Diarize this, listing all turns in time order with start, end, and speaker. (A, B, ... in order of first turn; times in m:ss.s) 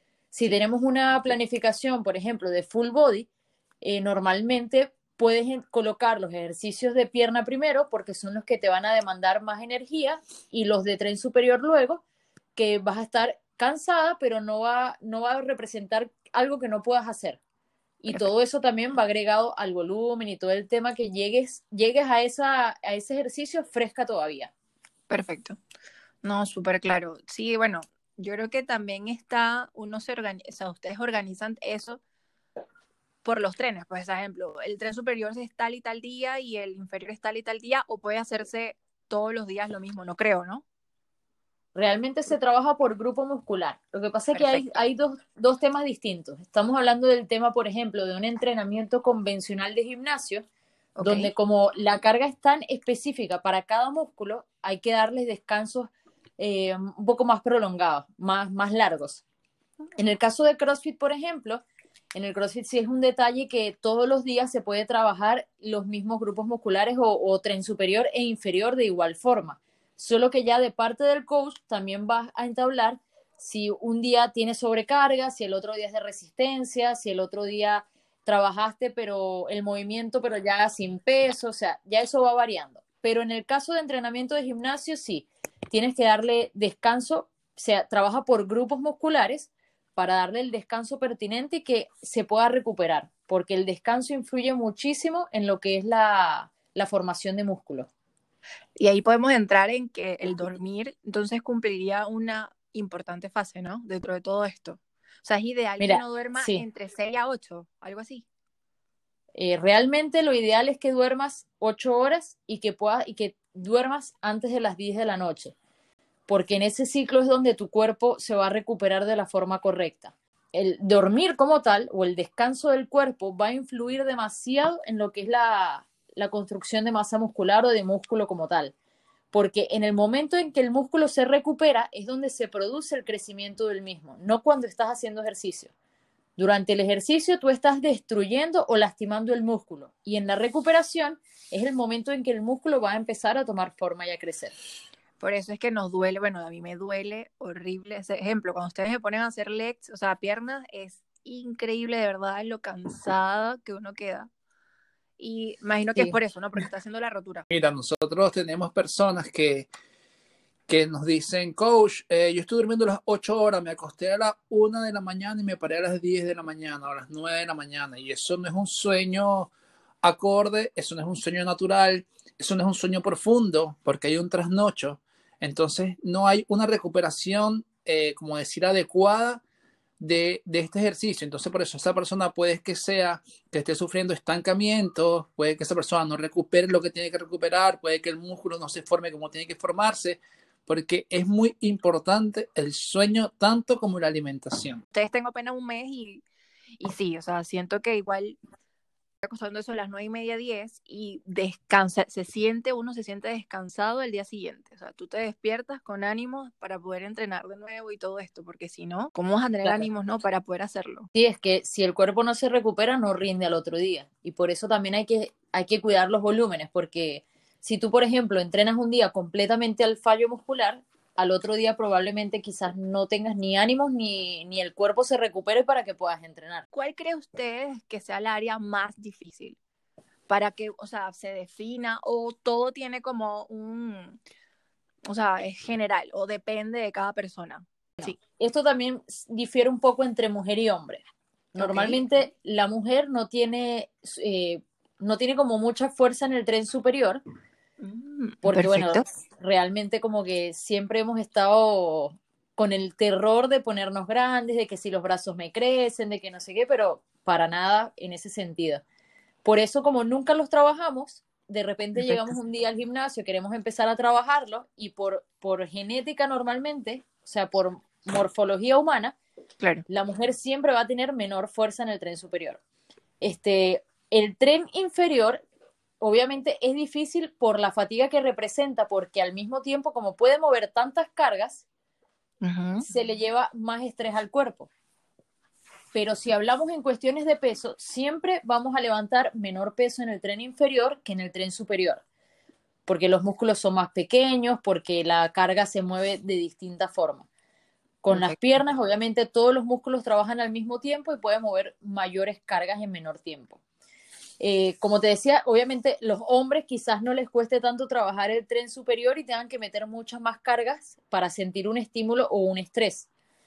0:00.3-0:03.3 A
0:03.8-0:12.0 A
0:12.6-0:17.4 A
0:18.0-0:24.5 A
0:25.1-0:25.6 B
0:26.2-0:32.0 B
0:33.2-0:40.6 B
0:41.7-0:50.4 A
0:44.3-0:44.7 B
0:51.0-0:51.3 B
0:51.0-0:59.2 A
1:00.0-1:01.6 A
1:02.1-1:37.9 A
1:38.8-1:48.2 B
1:45.8-1:46.6 A
1:49.3-1:55.5 A
1:56.3-2:08.7 A
2:09.3-2:15.7 A
2:16.4-2:24.5 A
2:25.2-2:34.3 B
2:35.2-2:37.4 B
2:37.5-2:39.7 C
2:40.7-2:49.5 C
2:50.0-2:59.4 C
3:00.0-3:14.8 C
3:14.9-3:16.2 B
3:16.8-3:18.4 B
3:19.2-3:31.1 B
3:31.1-3:46.6 A
3:46.7-3:49.6 B
3:50.3-3:54.2 B
3:55.0-3:58.2 B
3:58.0-4:01.0 A
4:01.5-4:07.2 A
4:01.6-4:02.0 B
4:07.8-4:09.0 B
4:08.4-4:18.8 A
4:19.4-4:29.2 A
4:22.0-4:22.3 B
4:29.9-4:32.6 A
4:33.2-4:35.4 A
4:36.0-4:41.6 A
4:42.4-4:42.8 B
4:42.8-4:44.7 A
4:45.9-4:52.0 A
4:52.8-4:57.2 A
4:58.0-5:03.6 A
4:58.1-4:58.4 B
5:04.4-5:13.1 A